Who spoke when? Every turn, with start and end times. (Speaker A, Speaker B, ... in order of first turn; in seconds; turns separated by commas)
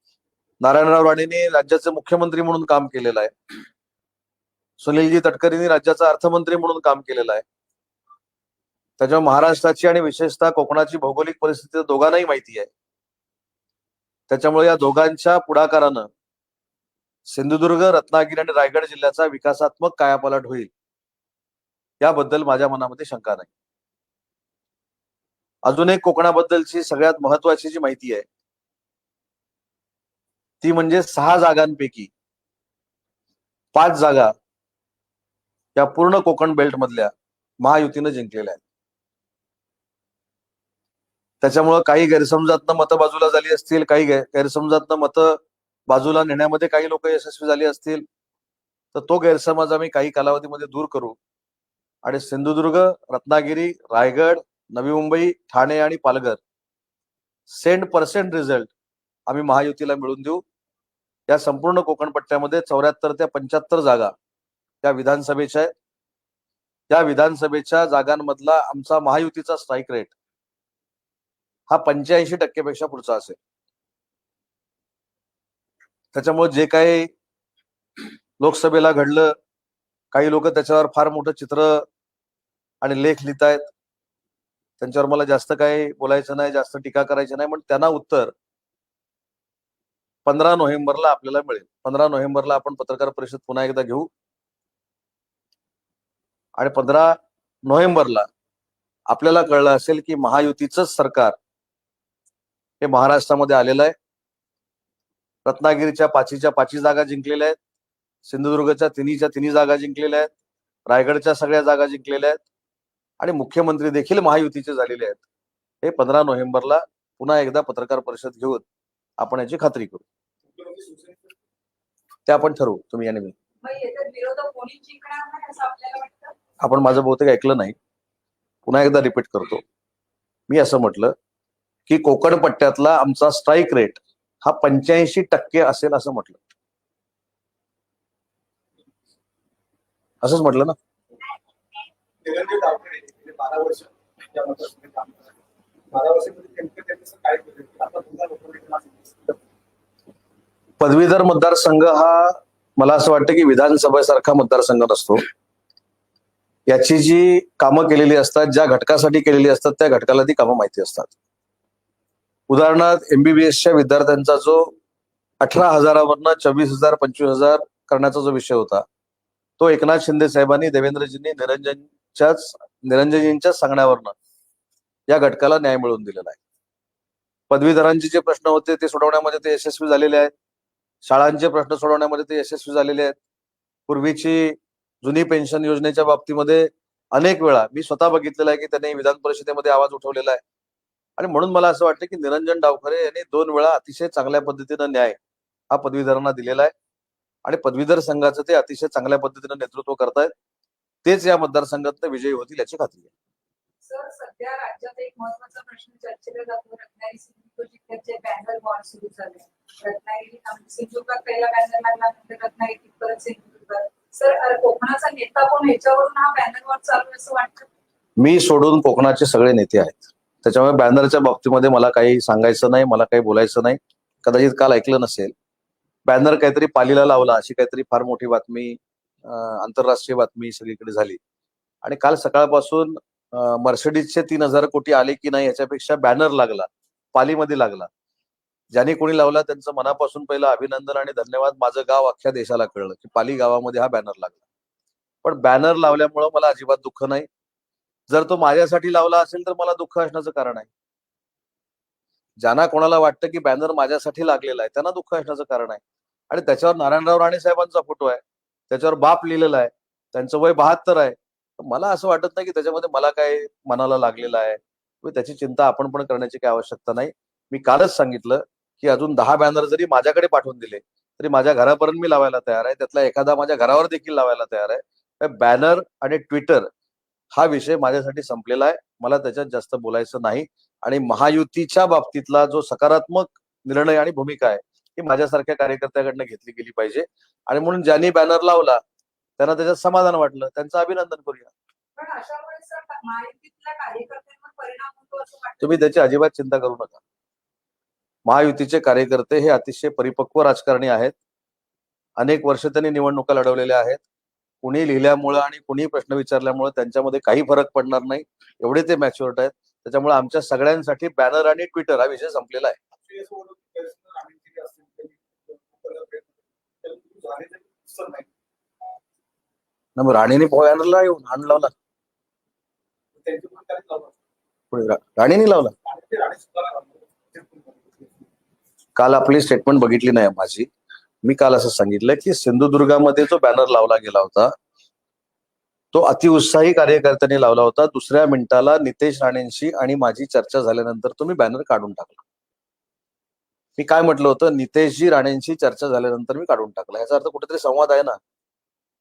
Speaker A: 0.6-3.3, Speaker A: 4.8-7.4, Speaker A: 9.0-12.7, Speaker A: 14.3-16.1, Speaker A: 17.3-20.7, Speaker A: 22.0-23.5, Speaker A: 25.6-28.2, Speaker A: 30.6-32.1, Speaker A: 33.7-34.3, Speaker A: 35.8-38.6, Speaker A: 41.4-48.0, Speaker A: 48.9-51.2, Speaker A: 52.0-56.4, Speaker A: 57.5-58.7, Speaker A: 59.3-60.4, Speaker A: 61.3-64.1, Speaker A: 64.8-65.7, Speaker A: 66.9-70.1, Speaker A: 71.7-73.4, Speaker A: 76.1-77.1, Speaker A: 78.4-79.3, Speaker A: 80.1-81.8, Speaker A: 82.8-83.7, Speaker A: 84.8-88.3, Speaker A: 90.2-94.1, Speaker A: 96.6-98.3, Speaker A: 99.1-101.4, Speaker A: 102.8-103.9, Speaker A: 105.4-107.6, Speaker A: 108.2-110.3, Speaker A: 110.9-112.4, Speaker A: 113.2-115.2, Speaker A: 115.8-118.6, Speaker A: 119.2-120.0, Speaker B: 120.5-121.3, Speaker A: 122.3-123.3, Speaker C: 123.6-126.3, Speaker A: 126.6-127.8, Speaker A: 128.7-129.6, Speaker A: 130.5-131.1, Speaker A: 131.9-136.4, Speaker A: 140.2-140.8, Speaker B: 142.2-145.3, Speaker B: 145.9-149.4, Speaker A: 150.8-155.2, Speaker A: 156.7-161.1, Speaker A: 162.5-164.7, Speaker A: 165.4-168.8, Speaker A: 169.6-174.1, Speaker A: 175.1-176.4, Speaker A: 177.5-180.3, Speaker A: 181.0-183.2, Speaker A: 183.9-190.4, Speaker A: 191.2-195.2, Speaker A: 195.7-196.7, Speaker A: 197.4-200.3, Speaker A: 201.0-203.1, Speaker C: 203.8-217.7, Speaker A: 218.2-225.3, Speaker A: 226.1-231.2, Speaker A: 231.8-237.9, Speaker A: 238.7-244.4, Speaker A: 245.2-247.3, Speaker A: 248.1-250.7, Speaker A: 252.4-276.7, Speaker A: 277.3-288.8, Speaker A: 289.4-291.5, Speaker C: 291.9-295.9, Speaker A: 295.6-297.0, Speaker A: 298.2-301.1, Speaker A: 302.2-304.0, Speaker A: 304.6-312.8, Speaker B: 312.9-318.3, Speaker A: 319.9-321.7, Speaker B: 323.2-324.1, Speaker A: 324.7-325.7, Speaker B: 325.8-328.2, Speaker A: 328.9-330.7, Speaker A: 331.2-334.5, Speaker A: 335.9-342.2, Speaker A: 343.8-348.2